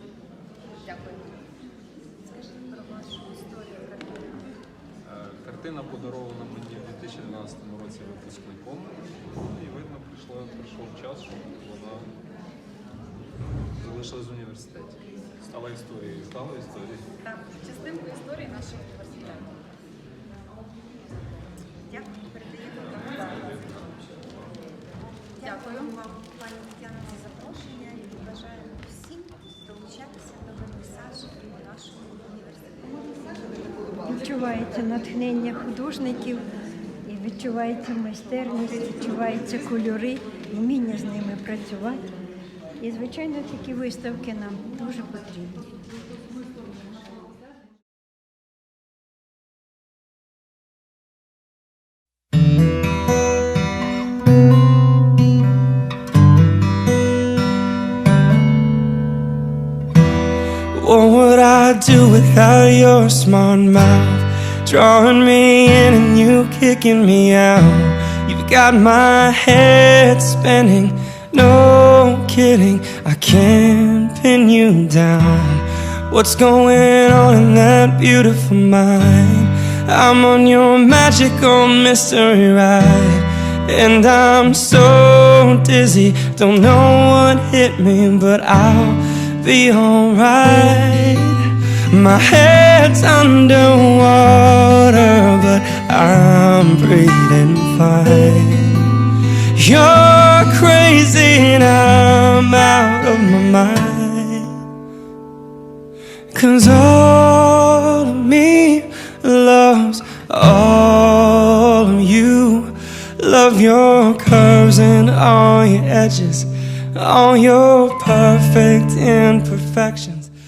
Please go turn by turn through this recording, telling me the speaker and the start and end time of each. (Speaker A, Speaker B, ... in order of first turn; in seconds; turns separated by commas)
Speaker A: 0.8-1.4, Speaker B: 2.2-4.4, Speaker C: 5.0-12.1, Speaker C: 13.8-17.0, Speaker A: 17.5-19.6, Speaker B: 21.7-23.9, Speaker C: 23.2-23.7, Speaker B: 25.4-33.0, Speaker A: 25.4-26.0, Speaker D: 34.0-36.4, Speaker D: 37.1-42.1, Speaker D: 42.8-45.7, Speaker E: 60.8-91.4, Speaker E: 91.9-98.9, Speaker E: 99.6-104.5, Speaker E: 106.3-120.3